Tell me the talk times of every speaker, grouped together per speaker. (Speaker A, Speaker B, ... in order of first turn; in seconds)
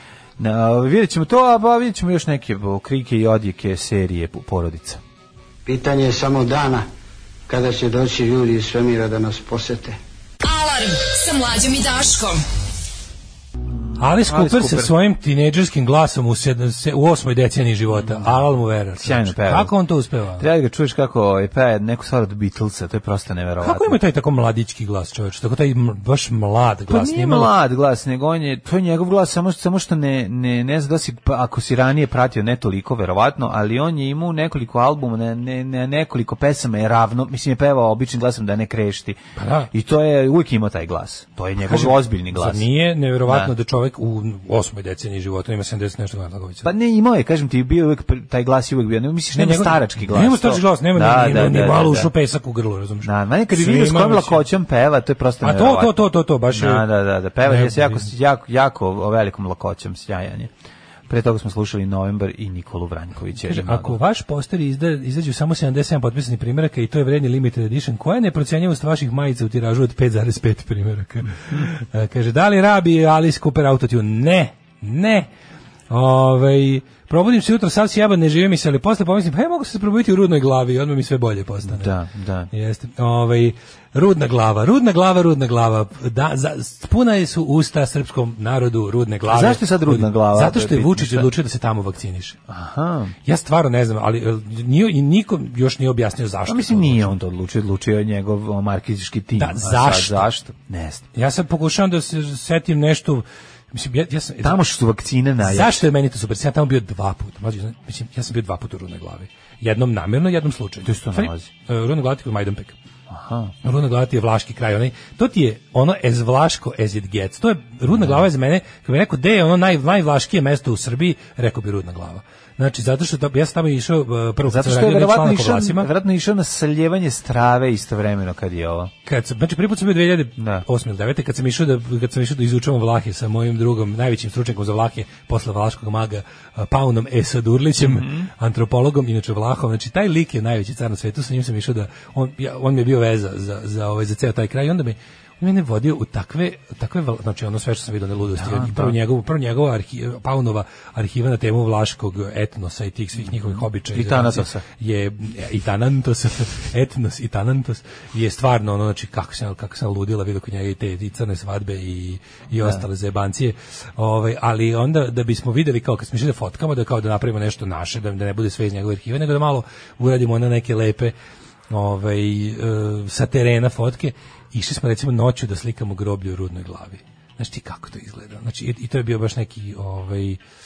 Speaker A: 0.4-5.0, 13.7-14.9, 17.9-18.4, 19.0-19.7, 20.4-24.0, 26.9-39.2, 39.7-42.6, 43.3-43.5, 46.6-52.1, 53.0-55.9, 56.5-60.5, 61.1-64.0, 81.6-82.5, 89.3-91.3, 92.5-93.2, 96.5-101.0, 104.4-105.8, 110.8-111.5, 113.1-113.5, 117.9-118.2, 124.5-128.9, 130.4-130.6, 137.8-138.3, 148.3-148.9, 153.2-154.6
Speaker B: 5.7-6.9, 7.5-10.0
Speaker C: 10.4-12.4
Speaker D: 14.0-20.5, 23.6-27.5, 39.4-39.7, 41.6-46.7, 49.3-54.4, 55.4-56.8, 57.4-58.1, 63.4-75.3, 75.9-81.9, 82.5-92.4, 93.2-97.1, 99.3-100.3, 101.1-104.6, 105.4-112.7, 113.6-125.9, 129.0-171.1, 171.7-180.4